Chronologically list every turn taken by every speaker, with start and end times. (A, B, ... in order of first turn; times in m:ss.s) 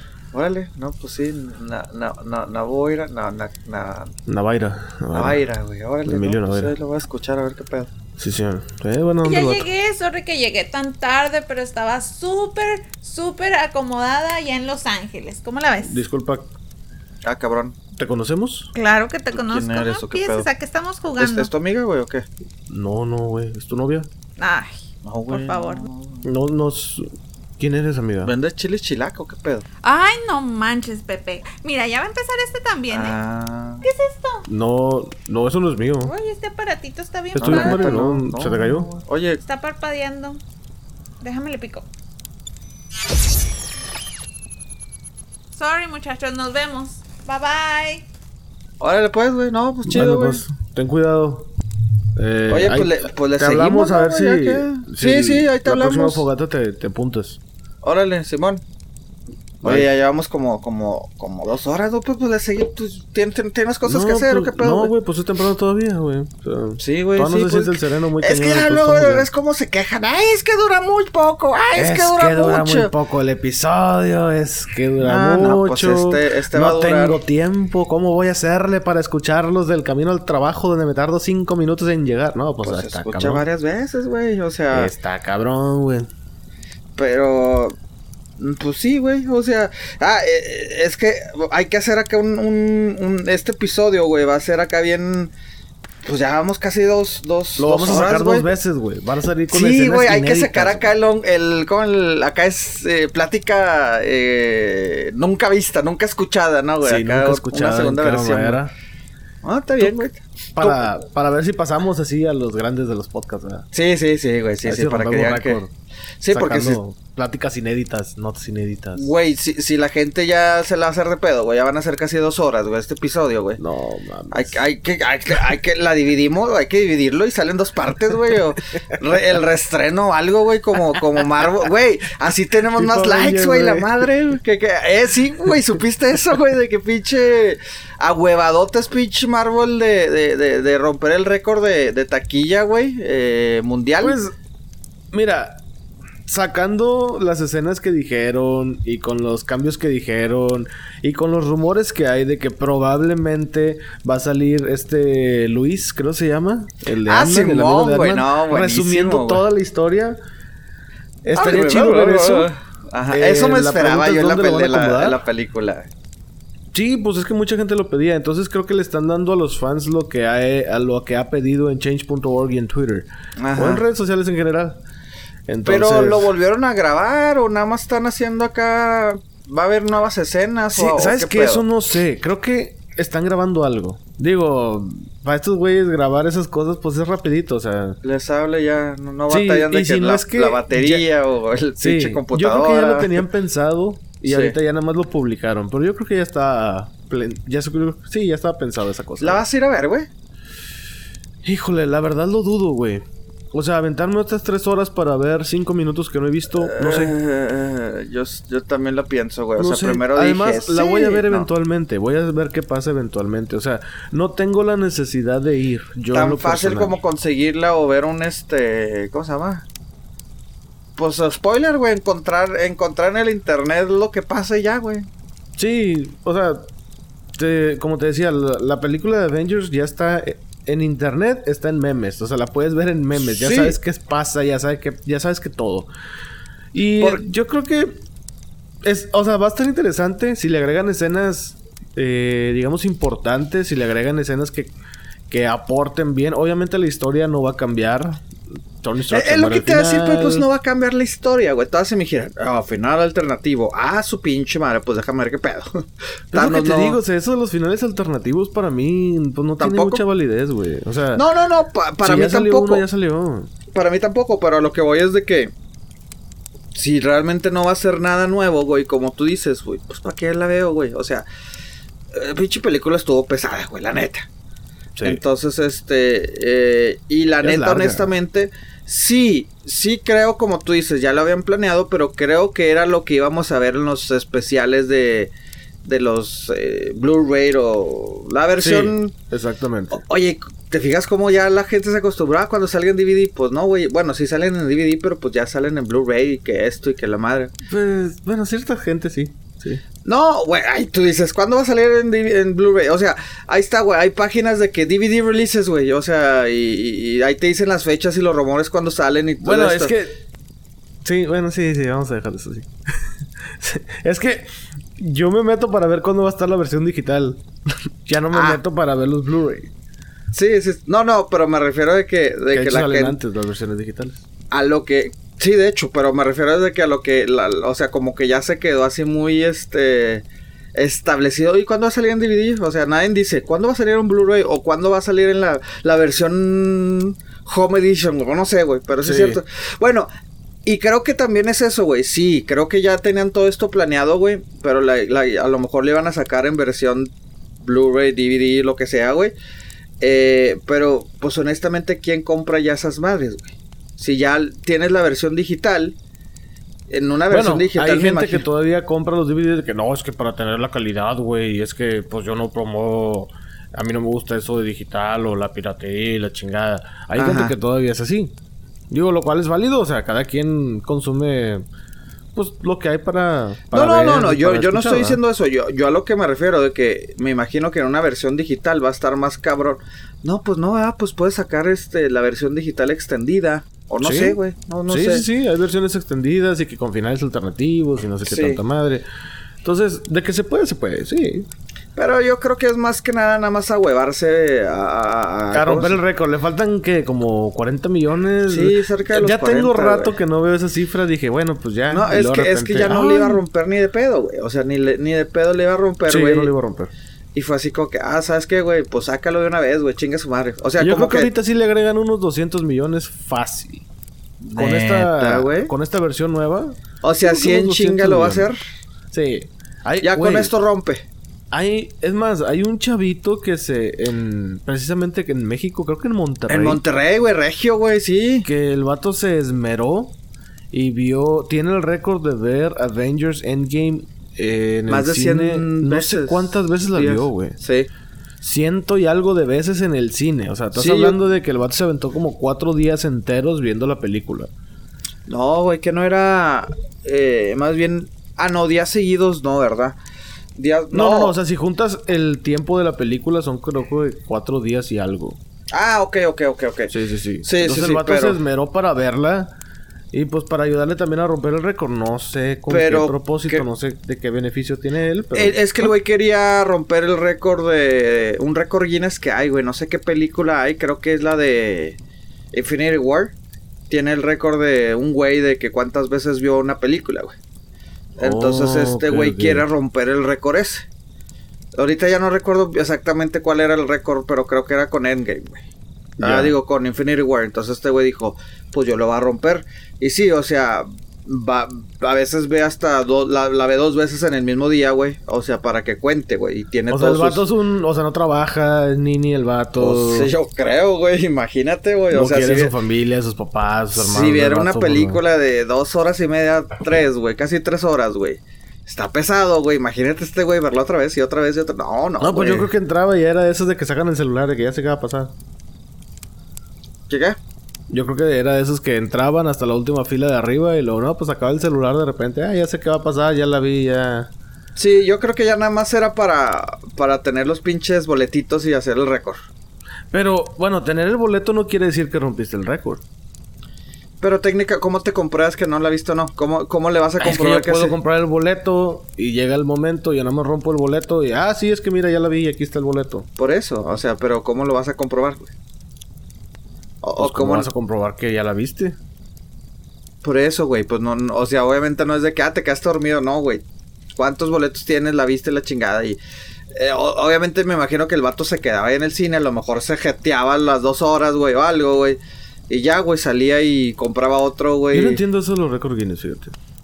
0:00.3-0:04.1 A
0:04.3-0:05.4 B
0:05.1-0:07.9 A
0:06.0-0:06.7 B
0:08.2-0:09.7 B
0:09.2-0:16.0 C
0:15.8-0:16.5 B
0:17.2-0:17.8 A
0:18.0-0:18.7 B
0:18.7-0:21.5 C
0:19.3-0:20.5 A
0:21.2-0:22.2 A
0:22.7-0:24.1 B
0:24.4-0:25.8 C
0:25.0-0:26.2 A
0:26.2-0:28.3 B
0:28.2-0:29.6 A
0:29.8-0:33.2 C
0:32.9-0:33.8 A
0:33.8-0:34.4 C
0:34.5-0:36.1 B
0:36.0-0:37.8 C
0:37.3-0:38.9 B
0:37.4-0:39.4 A
0:39.4-0:40.4 C
0:41.2-0:41.8 C
0:45.5-0:48.0 C
0:48.8-0:50.4 A
0:49.8-0:51.5 B
0:52.2-0:57.4 B
0:52.5-0:56.2 A
0:57.8-0:58.6 A
0:59.6-0:59.9 B
0:59.6-1:04.9 A
1:03.8-1:09.3 B
1:06.8-1:12.9 A
1:11.7-1:23.4 B
1:15.0-1:17.2 A
1:22.6-1:24.9 A
1:24.7-1:26.1 B
1:27.0-1:27.8 A
1:28.4-1:35.3 A
1:36.0-1:38.5 A
1:37.6-1:40.9 B
1:39.5-1:48.6 A
1:46.8-1:48.7 B
1:49.4-1:50.9 A
1:50.5-1:53.7 B
1:53.7-1:55.6 A
1:54.6-1:55.7 B
1:56.2-1:56.8 A
1:56.3-1:59.1 B
1:59.0-2:03.6 A
2:03.6-2:04.6 B
2:04.3-2:24.2 A
2:12.7-2:14.1 B
2:24.0-2:24.3 B
2:25.1-2:25.6 B
2:26.2-2:40.2 B
2:37.0-2:39.4 A
2:41.2-2:42.5 B
2:41.3-2:45.9 A
2:43.1-2:45.2 B
2:46.7-2:54.8 B
2:53.4-2:53.8 A
2:55.5-2:56.3 B
2:55.6-3:01.6 A
3:00.7-3:08.0 B
3:08.0-3:13.2 A
3:09.3-3:11.0 B
3:11.8-3:19.4 B
3:14.2-3:14.6 A
3:19.2-3:20.1 A
3:21.4-3:27.1 B
3:26.5-3:31.5 A
3:29.6-3:37.0 B
3:36.1-3:39.6 A
3:41.0-3:45.1 A
3:45.6-3:46.7 B
3:47.4-3:55.9 B
3:53.2-3:53.8 A
3:56.7-3:58.0 B
3:58.8-4:04.7 B
4:05.3-4:08.3 B
4:08.8-4:10.4 B
4:09.1-4:17.0 A
4:16.3-4:21.2 B
4:19.6-4:20.0 A
4:21.1-4:22.8 A
4:22.0-4:23.5 B
4:23.7-4:25.5 A
4:26.7-4:31.2 A
4:32.1-4:34.3 A
4:35.0-4:45.3 A
4:37.4-4:38.1 B
4:45.8-4:49.1 A
4:48.6-4:50.0 B
4:49.9-4:57.5 A
4:57.7-4:59.8 B
5:00.0-5:09.9 A
5:09.4-5:10.2 B
5:11.0-5:17.4 B
5:18.0-5:19.7 B
5:18.3-5:18.6 A
5:20.3-5:23.2 A
5:22.5-5:24.2 B
5:24.5-5:30.2 A
5:30.7-5:40.1 A
5:39.0-5:39.4 B
5:40.6-5:47.1 A
5:47.6-5:49.3 A
5:50.0-5:55.9 A
5:56.9-5:58.4 A
5:57.3-6:08.3 B
6:07.2-6:07.5 A
6:08.9-6:11.6 B
6:12.3-6:15.2 B
6:13.7-6:25.2 A
6:24.0-6:29.0 B
6:28.2-6:28.6 A
6:29.6-6:31.5 B
6:32.0-6:36.0 A
6:35.5-6:43.4 B
6:38.5-6:40.2 A
6:41.9-6:46.5 A
6:46.1-6:46.9 B
6:47.3-6:51.3 A
6:50.8-6:53.8 B
6:54.4-6:55.7 A
6:54.5-6:58.5 B
6:57.0-6:58.6 A
6:59.1-7:00.5 B
7:00.0-7:01.0 A
7:01.5-7:06.8 B
7:06.5-7:08.5 A
7:08.4-7:10.2 B
7:10.7-7:17.6 B
7:14.9-7:17.9 A
7:18.4-7:24.5 B
7:20.7-7:21.2 A
7:25.3-7:30.0 A
7:30.6-7:31.3 A
7:30.9-7:35.4 B
7:35.7-7:38.4 A
7:36.9-7:39.5 B
7:40.1-7:45.9 B
7:42.7-7:43.6 A
7:45.3-7:52.0 A
7:52.5-7:53.3 A
7:53.9-7:57.3 A
7:58.2-8:00.8 A
7:58.2-7:59.7 B
8:01.8-8:05.6 A
8:06.2-8:06.5 B
8:06.2-8:17.4 A
8:16.9-8:20.3 B
8:19.8-8:22.7 A
8:22.1-8:25.2 B
8:24.0-8:32.7 A
8:32.2-8:35.3 B
8:37.1-8:37.4 A
8:37.9-8:44.3 B
8:44.8-8:49.4 A
8:50.1-8:53.0 B
8:54.2-8:57.9 A
8:57.2-9:03.3 B
9:03.4-9:05.5 A
9:07.0-9:07.7 A
9:07.2-9:09.0 B
9:10.2-9:13.6 A
9:14.2-9:16.2 A
9:16.7-9:25.2 A
9:24.9-9:26.6 B